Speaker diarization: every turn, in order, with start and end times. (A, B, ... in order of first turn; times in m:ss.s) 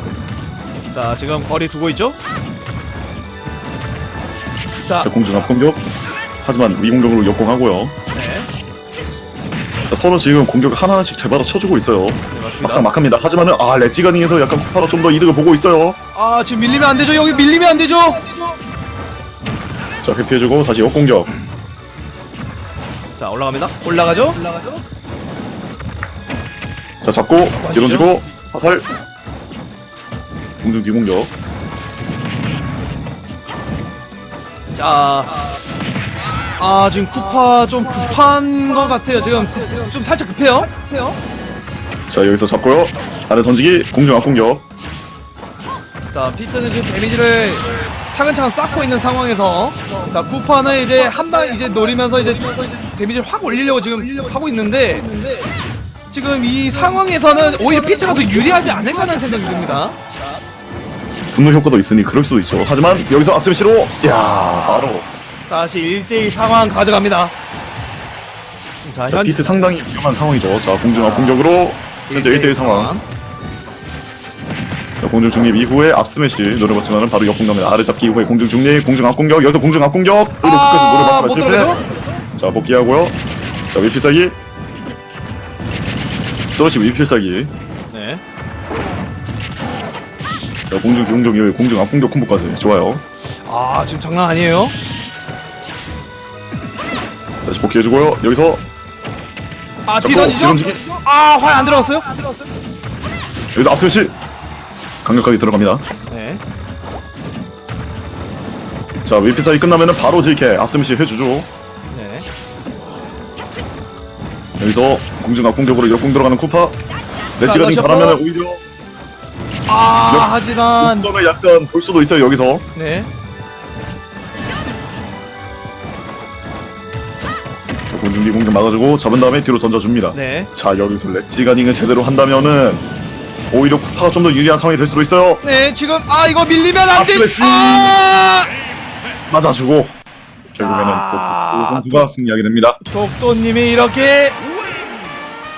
0:00.9-0:02.2 A
0:04.8-0:05.1 A
0:05.0-0:05.8 B
0:06.4-0:07.9 B
0:08.1-0:08.5 A
0:09.9-0:16.0 B
0:12.3-0:12.9 A
0:16.1-0:18.4 A
0:20.0-0:21.3 B
0:23.2-0:24.8 A
0:27.0-0:28.9 B
0:27.6-0:28.1 A
0:30.6-0:31.3 B
0:34.7-0:35.4 A
0:36.6-0:41.1 A
0:42.1-0:44.6 B
0:46.1-0:55.1 A
0:56.1-1:00.0 A
1:01.3-1:05.1 B
1:04.1-1:04.9 A
1:05.5-1:07.3 A
1:08.8-1:09.8 A
1:09.1-1:12.9 B
1:10.9-1:11.5 A
1:12.1-1:13.0 A
1:15.0-1:21.8 B
1:20.4-1:21.9 A
1:22.4-1:23.2 B
1:23.7-1:24.4 B
1:26.6-1:27.5 B
1:27.9-1:28.2 A
1:30.7-1:33.0 B
1:33.3-1:34.7 A
1:37.4-1:38.6 B
1:39.9-1:42.4 A
1:40.0-1:40.8 B
1:43.5-1:44.2 B
1:45.0-1:45.8 B
1:46.1-1:46.4 A
1:49.0-1:51.5 B
1:51.9-1:52.3 A
1:54.6-1:56.8 B
1:57.4-1:58.6 B
1:57.4-1:58.2 A
1:59.7-2:01.1 A
2:00.1-2:02.6 B
2:02.8-2:03.1 A
2:07.9-2:12.8 B
2:10.1-2:10.5 A
2:13.5-2:15.4 B
2:15.4-2:18.5 A
2:16.9-2:18.0 B
2:19.3-2:20.0 B
2:20.5-2:22.8 B
2:20.6-2:22.1 A
2:22.8-2:24.4 A